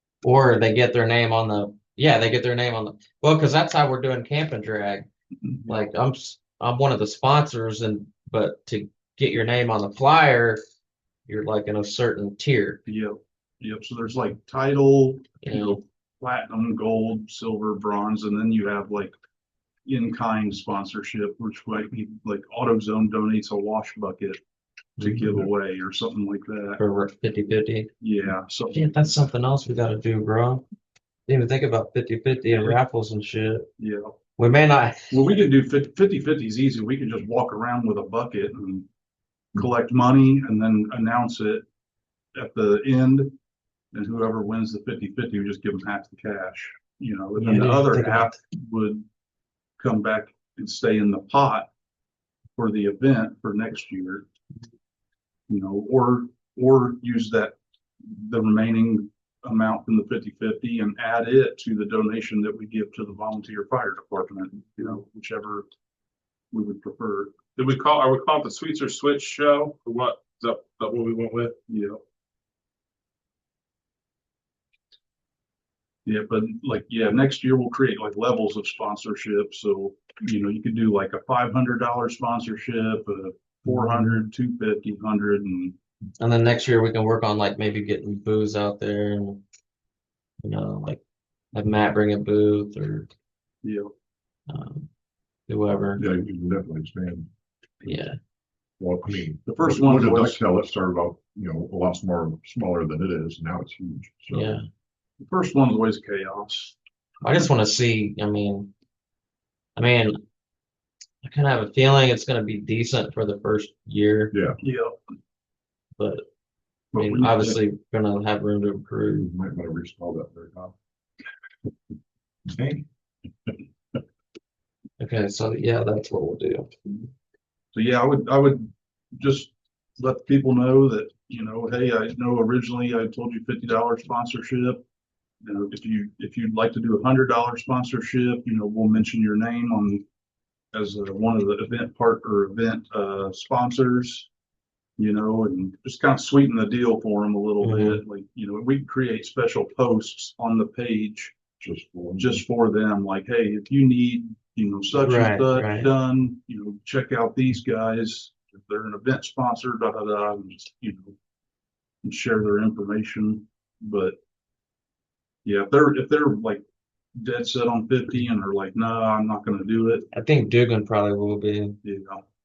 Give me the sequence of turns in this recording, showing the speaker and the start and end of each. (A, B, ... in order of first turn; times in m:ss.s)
0:00.2-0:05.1 A
0:05.4-0:05.8 B
0:05.7-0:10.6 A
0:11.3-0:12.8 A
0:12.8-0:19.2 B
0:15.4-0:15.8 A
0:19.8-0:24.4 B
0:25.0-0:25.4 A
0:25.0-0:26.8 B
0:26.8-0:27.9 A
0:28.0-0:29.1 B
0:28.7-0:30.6 A
0:31.3-0:33.7 A
0:33.8-0:34.1 B
0:34.4-0:35.2 A
0:35.1-0:38.9 B
0:39.5-0:41.6 B
0:42.3-0:43.3 B
0:43.9-0:49.0 B
0:47.4-0:48.3 A
0:49.8-0:51.7 B
0:52.6-0:54.3 B
0:55.5-1:05.7 B
1:06.5-1:07.4 B
1:07.6-1:11.5 C
1:11.7-1:12.0 B
1:16.0-1:25.8 B
1:26.2-1:29.4 A
1:30.4-1:31.0 A
1:31.5-1:33.1 A
1:33.6-1:33.9 B
1:34.5-1:34.9 A
1:35.5-1:36.0 A
1:36.0-1:37.3 D
1:37.8-1:38.2 A
1:38.8-1:44.6 D
1:39.5-1:40.4 B
1:44.3-1:44.6 A
1:45.2-1:46.8 B
1:47.2-1:48.7 A
1:49.8-1:50.2 A
1:51.2-1:54.3 A
1:54.3-1:54.6 D
1:54.6-1:55.0 B
1:56.0-1:56.2 A
1:56.9-1:57.6 B
1:56.9-1:59.3 A
1:59.1-2:00.7 D
2:02.6-2:02.8 C
2:05.0-2:06.7 A
2:07.7-2:14.8 B
2:15.4-2:20.0 B
2:20.7-2:24.3 B
2:25.0-2:31.4 B
2:27.6-2:28.0 A
2:31.6-2:32.4 D
2:32.2-2:41.2 B
2:35.0-2:35.9 A
2:42.0-2:44.2 B
2:45.4-2:46.6 B
2:47.2-2:50.1 B
2:50.1-2:51.8 A
2:51.8-2:52.2 B